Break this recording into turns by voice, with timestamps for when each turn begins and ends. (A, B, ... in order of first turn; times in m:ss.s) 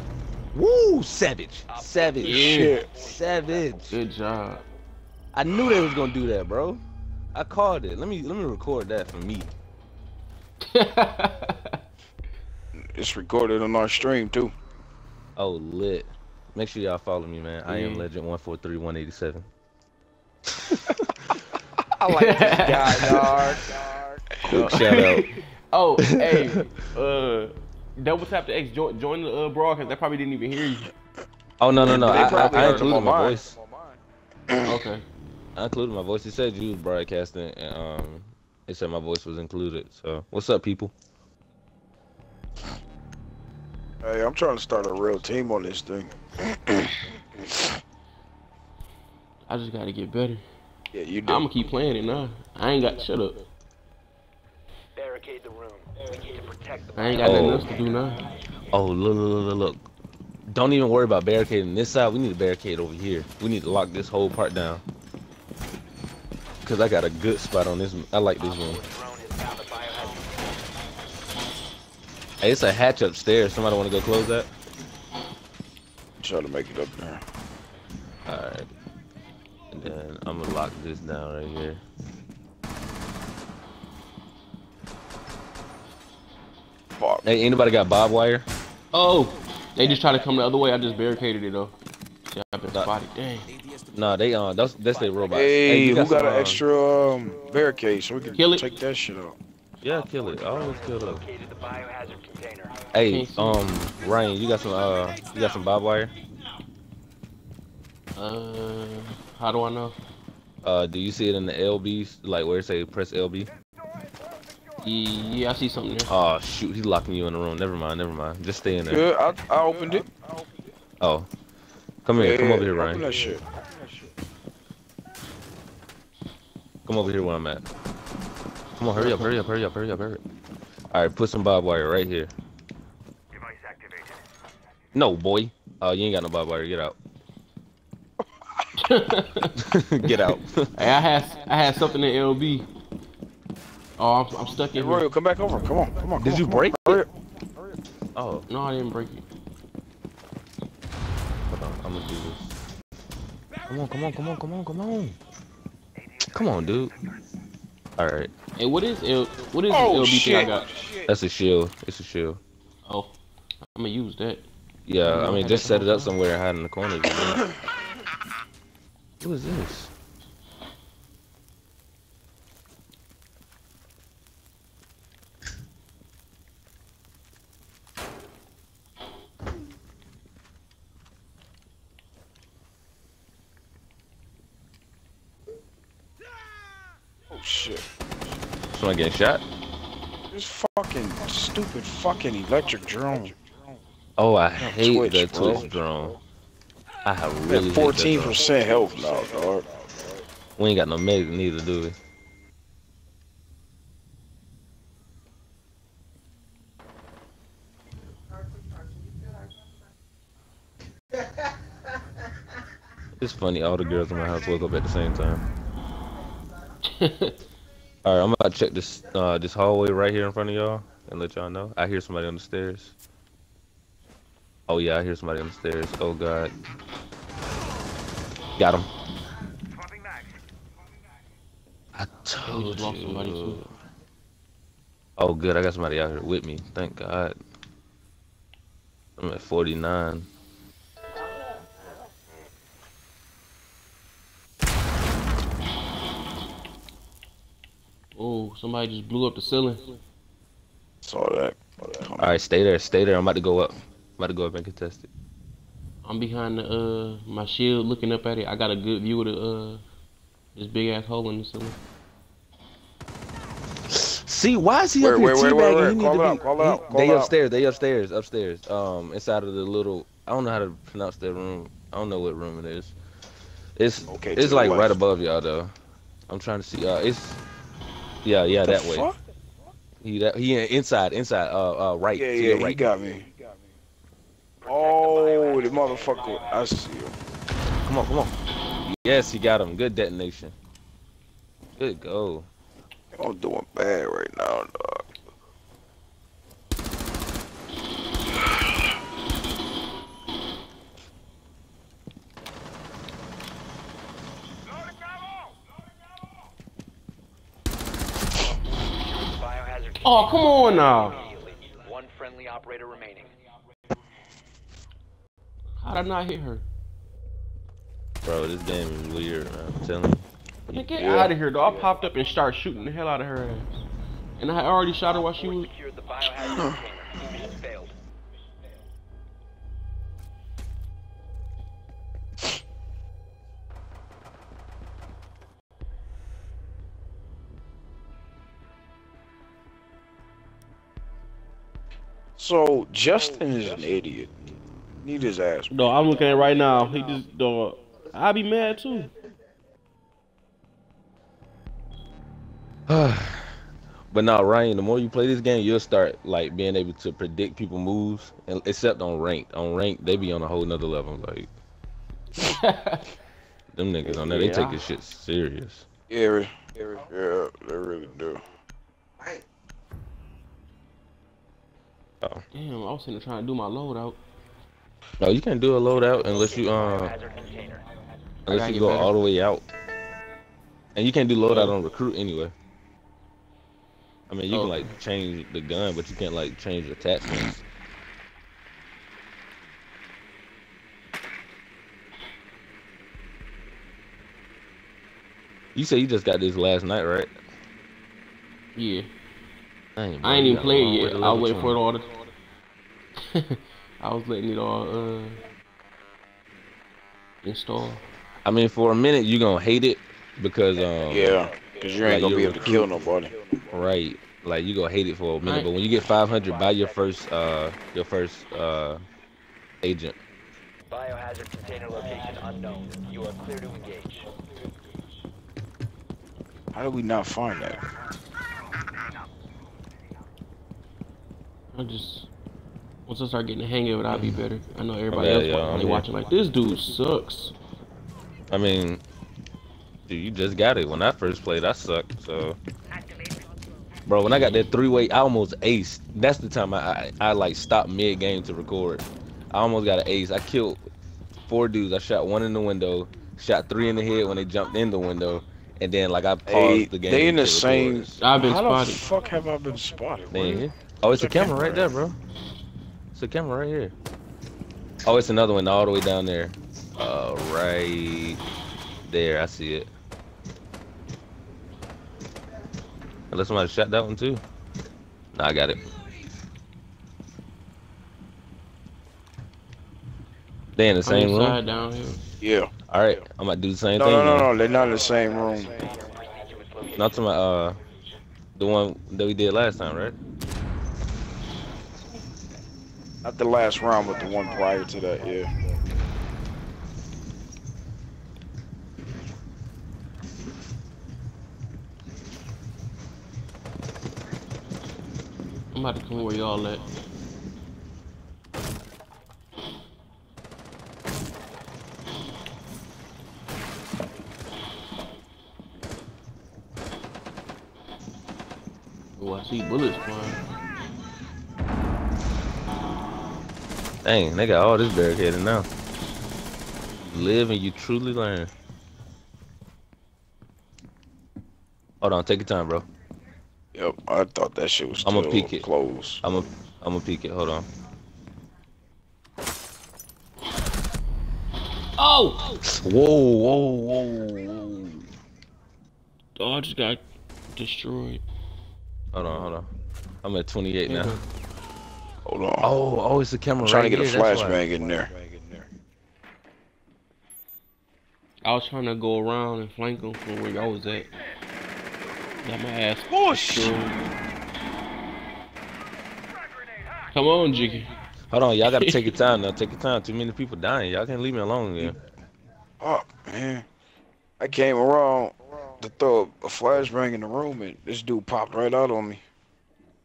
0:00.5-0:04.0 A
0:01.7-0:03.8 B
0:02.2-0:02.8 C
0:02.2-0:03.0 D
0:03.9-0:04.6 C
0:05.3-0:06.8 A
0:07.3-0:09.5 A
0:10.6-0:11.8 C
0:12.8-0:14.5 D
0:15.4-0:19.5 A
0:17.7-0:18.1 C
0:20.6-0:21.0 A
0:22.0-0:25.0 D
0:22.1-0:23.6 C
0:24.4-0:25.3 A
0:24.5-0:30.9 C
0:26.0-0:26.6 A
0:31.6-0:33.6 A
0:31.8-0:33.0 C
0:31.8-0:34.0 D
0:34.6-0:35.0 C
0:35.6-0:40.9 A
0:44.0-0:47.2 D
0:49.5-0:50.4 C
0:50.9-0:51.5 D
0:51.3-0:53.4 C
0:55.0-0:57.8 B
0:57.0-0:58.2 C
0:57.2-0:57.7 A
0:58.7-0:59.8 A
1:00.5-1:04.8 A
1:06.6-1:08.8 A
1:08.4-1:10.6 B
1:12.4-1:14.5 A
1:16.2-1:17.2 D
1:18.3-1:18.7 A
1:19.7-1:21.8 A
1:27.0-1:27.2 D
1:27.2-1:28.5 A
1:28.9-1:31.8 C
1:32.3-1:33.5 C
1:33.9-1:36.6 A
1:34.8-1:35.6 B
1:35.3-1:39.4 D
1:38.4-1:38.7 C
1:39.8-1:41.2 A
1:40.0-1:42.9 B
1:42.9-1:46.1 A
1:43.1-1:43.6 C
1:48.2-1:50.0 C
1:50.6-1:53.5 A
1:54.8-1:56.1 C
1:56.1-1:59.0 A
1:58.9-2:00.2 D
2:01.0-2:01.3 A
2:02.0-2:03.1 A
2:02.2-2:03.6 D
2:06.9-2:07.6 A
2:08.8-2:10.2 A
2:09.0-2:09.3 C
2:10.9-2:12.3 A
2:14.9-2:17.0 A
2:18.8-2:19.6 C
2:19.6-2:20.7 A
2:20.8-2:22.7 C
2:24.0-2:25.1 C
2:24.8-2:27.1 D
2:26.2-2:27.0 A
2:28.2-2:28.5 A
2:28.5-2:29.2 C
2:31.5-2:32.6 A
2:33.7-2:35.2 A
2:36.3-2:37.0 A
2:38.0-2:38.3 A
2:38.6-2:40.7 C
2:39.7-2:41.0 D
2:41.1-2:42.4 A
2:42.9-2:44.5 C
2:44.9-2:47.5 A
2:45.0-2:46.1 C
2:49.2-2:49.9 A
3:07.3-3:07.9 D
3:08.7-3:09.4 A
3:10.3-3:13.4 D
3:14.2-3:16.2 A
3:14.6-3:16.0 D
3:17.0-3:18.5 A
3:17.5-3:19.8 D
3:20.6-3:22.0 A
3:33.2-3:35.4 A
3:36.9-3:37.4 C
3:38.0-3:43.0 A
3:44.7-3:46.5 A
3:48.6-3:48.9 A
3:52.0-3:53.7 A
3:52.4-3:53.6 C
3:55.2-3:57.4 A
3:59.2-4:00.3 A
4:08.2-4:09.9 C
4:11.0-4:12.3 D
4:12.2-4:15.1 A
4:16.0-4:19.8 C
4:20.6-4:21.8 C
4:23.9-4:33.0 A
4:25.0-4:27.3 D
4:33.8-4:35.7 A
4:34.1-4:34.9 D
4:36.3-4:37.4 A
4:38.2-4:39.1 A
4:38.6-4:39.2 D
4:40.0-4:42.8 A
4:42.1-4:43.3 D
4:44.6-4:46.6 B
4:44.7-4:47.2 D
4:47.8-4:50.6 A
4:51.8-4:52.5 A
4:53.2-4:55.1 D
5:09.0-5:13.3 B
5:10.0-5:11.2 C
5:15.8-5:16.6 C
5:18.2-5:20.2 A
5:20.7-5:23.7 C
5:20.7-5:21.3 A
5:21.0-5:21.4 D
5:24.4-5:25.7 C
5:25.3-5:28.0 B
5:26.4-5:26.7 D
5:42.4-5:44.4 D
5:45.0-5:45.8 D
5:45.7-5:49.1 C
5:52.9-5:53.6 A
5:54.1-6:01.5 A
6:02.4-6:03.0 C
6:03.7-6:05.8 A
6:04.0-6:04.7 D
6:04.4-6:04.8 C
6:06.1-6:08.4 D
6:12.5-6:14.2 C
6:15.2-6:17.1 A
6:16.3-6:17.8 B
6:18.5-6:19.2 C
6:18.5-6:19.6 A
6:21.0-6:22.5 A
6:24.3-6:27.6 A
6:24.5-6:24.9 C
6:35.8-6:37.3 A
6:38.8-6:39.1 C
6:40.0-6:41.8 A
6:40.2-6:42.1 C
6:43.2-6:45.4 C
6:47.4-6:48.0 C
6:48.4-6:51.4 A
6:51.1-6:53.4 D
6:52.0-6:52.9 A
6:53.7-6:59.0 A
6:55.4-6:55.7 C
6:56.1-6:57.3 B
6:59.8-7:00.2 A
7:00.9-7:04.3 B
7:06.7-7:07.9 D
7:11.7-7:12.3 C
7:13.1-7:17.5 C
7:14.1-7:14.4 A
7:15.1-7:16.1 A
7:18.5-7:19.0 A
7:20.1-7:22.6 A
7:24.1-7:30.9 A
7:31.5-7:38.2 A
7:36.5-7:41.9 D
7:38.2-7:39.0 C
7:40.3-7:42.2 A
7:43.1-7:43.9 A
7:45.0-7:48.4 A
7:49.1-7:49.9 A
7:53.3-7:54.4 A
7:55.3-7:55.8 A
8:00.8-8:01.6 A
8:01.1-8:02.2 C
8:02.4-8:02.7 D
8:02.9-8:04.5 A
8:04.0-8:05.8 D
8:05.8-8:07.2 B
8:07.0-8:07.8 A
8:08.6-8:10.2 A
8:13.2-8:15.5 D
8:25.7-8:26.8 C
8:39.2-8:40.4 C
8:44.0-8:45.7 A
8:47.0-8:48.5 A
8:52.0-8:52.9 A
8:53.8-8:56.3 D
8:55.0-8:55.7 A
8:56.2-8:57.7 A
9:02.0-9:02.5 C
9:02.6-9:05.1 A
9:06.4-9:07.0 C
9:07.6-9:08.2 C
9:09.1-9:09.7 A
9:10.2-9:11.2 A
9:10.9-9:11.2 C
9:12.3-9:12.7 D
9:12.6-9:14.6 A
9:13.6-9:15.2 D
9:18.4-9:21.1 C
9:22.4-9:24.1 C
9:23.1-9:23.8 D
9:27.1-9:27.9 C
9:28.3-9:32.0 A
9:28.8-9:29.2 C
9:32.8-9:33.7 D
9:34.4-9:39.2 D